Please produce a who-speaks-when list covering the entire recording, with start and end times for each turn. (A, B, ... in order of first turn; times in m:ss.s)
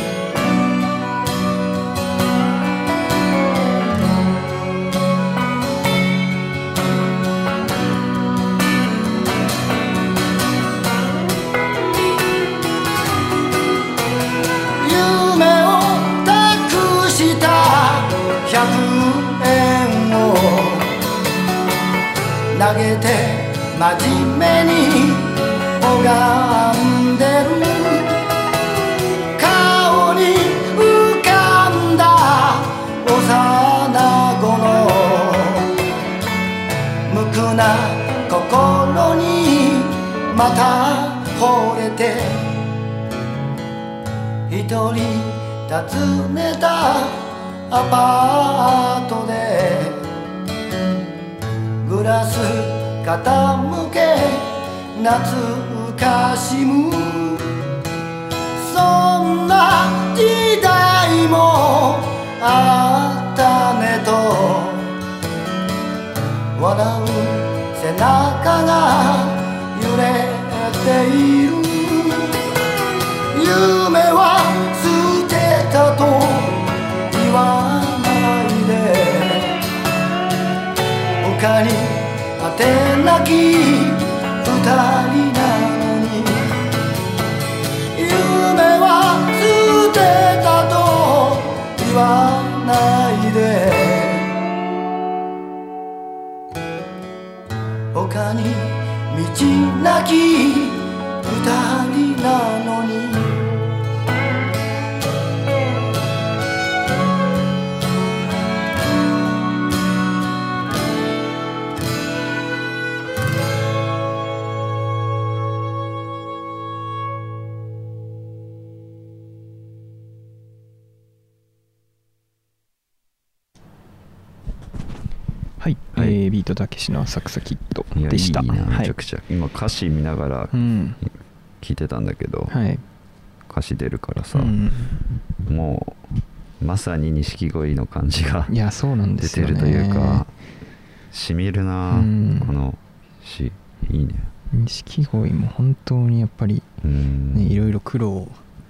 0:14.8-0:20.9 A
0:22.5-0:28.2 A
0:29.4-0:35.7 A
0:37.1-0:42.6 A
0:44.5-0:50.0 A
0:51.8-0:57.5 A
0:58.5-1:04.9 A
1:06.5-1:12.4 A
1:13.3-1:19.6 A
1:21.2-1:26.5 A
1:27.9-1:34.3 A
1:37.9-1:43.5 A
2:05.6-2:08.9 B
2:07.9-2:12.6 C
2:10.5-2:11.0 B
2:12.5-2:12.8 B
2:13.5-2:14.6 C
2:14.3-2:15.0 B
2:15.4-2:16.0 C
2:16.6-2:18.5 C
2:18.5-2:20.2 B
2:19.2-2:20.3 C
2:21.1-2:24.3 C
2:21.9-2:22.5 B
2:24.5-2:26.7 B
2:26.8-2:27.6 C
2:27.3-2:28.4 B